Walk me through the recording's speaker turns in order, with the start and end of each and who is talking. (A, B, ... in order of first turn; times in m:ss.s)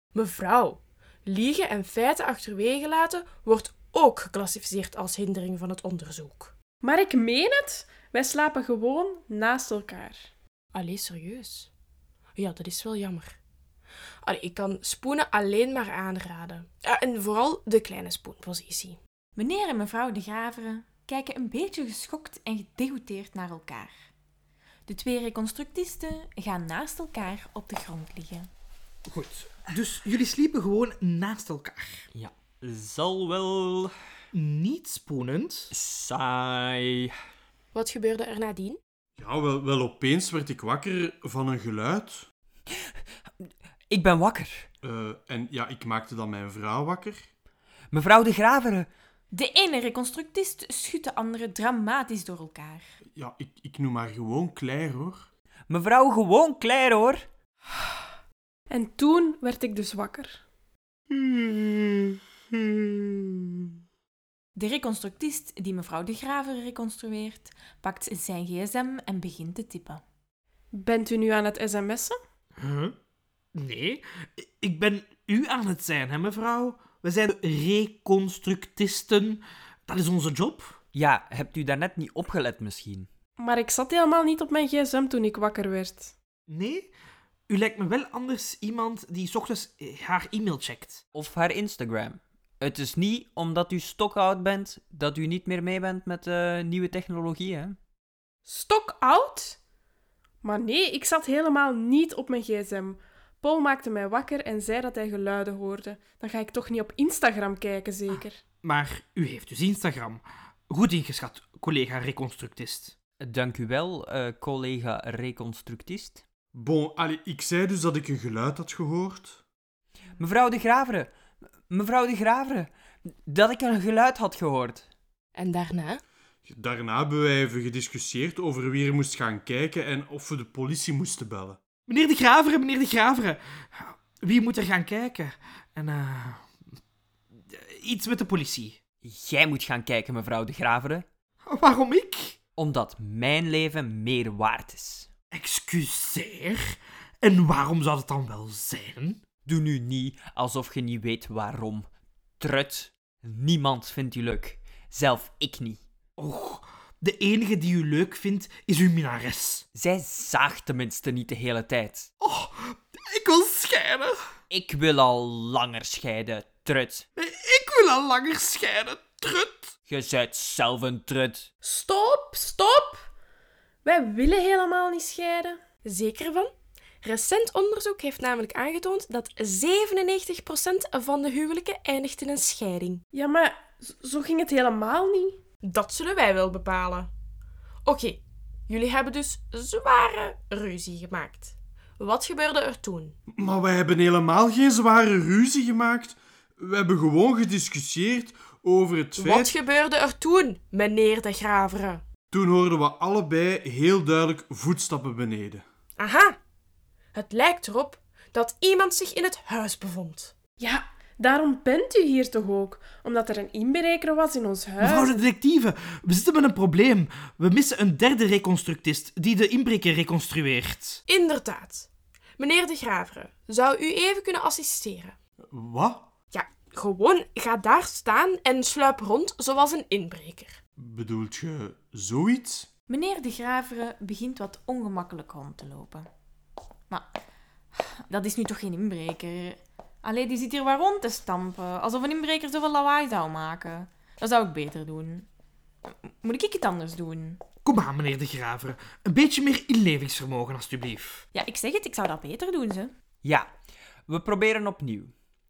0:00.1-0:06.5 A
0:06.8-0:10.2 B
0:10.8-0:11.7 A
0:12.4-0:13.4 A
0:14.2-0:19.0 A
0:19.4-0:23.9 C
0:24.9-0:28.5 C
0:29.1-0:32.0 D
0:32.1-0:33.9 E
0:34.3-0:35.7 D
0:35.7-0:37.1 E
0:37.7-0:38.8 A
0:39.2-0:42.3 F
0:43.9-0:44.7 E
0:44.8-0:47.2 F
0:47.9-0:48.9 E
0:49.3-0:52.9 C
0:53.2-0:55.3 F
0:55.7-0:57.2 E
0:58.7-1:00.4 B
1:04.6-1:10.0 C
1:10.8-1:12.2 B
1:12.6-1:13.0 D
1:13.6-1:20.8 D
1:20.9-1:23.1 E
1:23.4-1:26.1 B
1:26.5-1:26.9 D
1:27.5-1:31.0 D
1:31.1-1:37.8 E
1:38.5-1:39.6 B
1:40.4-1:48.4 B
1:48.6-1:52.9 D
1:53.2-1:56.2 E
1:56.5-1:59.4 F
2:00.2-2:01.1 E
2:01.7-2:02.7 E
2:03.2-2:04.9 E
2:05.4-2:06.0 A
2:06.4-2:11.6 F
2:11.9-2:16.5 D
2:17.3-2:18.8 D
2:19.0-2:21.1 E
2:21.4-2:22.4 D
2:22.6-2:25.1 E
2:25.3-2:29.2 D
2:29.4-2:31.9 E
2:32.4-2:35.8 E
2:36.2-2:39.6 D
2:39.7-2:42.1 E
2:42.2-2:44.1 D
2:44.5-2:47.1 E
2:47.2-2:49.7 D
2:49.9-2:51.5 E
2:51.6-2:53.0 B
2:53.8-2:55.6 B
2:55.8-2:56.5 A
2:57.0-3:03.0 A
3:03.1-3:05.4 B
3:05.6-3:07.1 A
3:07.9-3:13.2 A
3:13.4-3:19.6 F
3:19.2-3:22.0 A
3:22.3-3:25.6 F
3:26.0-3:26.4 A
3:27.1-3:30.3 A
3:30.6-3:35.1 B
3:34.8-3:41.0 D
3:41.1-3:45.1 A
3:45.5-3:46.1 F
3:46.3-3:50.6 A
3:50.8-3:52.7 F
3:52.9-3:56.1 C
3:58.1-4:05.3 C
4:06.0-4:07.4 C
4:07.6-4:11.2 D
4:11.3-4:12.9 C
4:13.2-4:13.5 E
4:14.1-4:15.1 E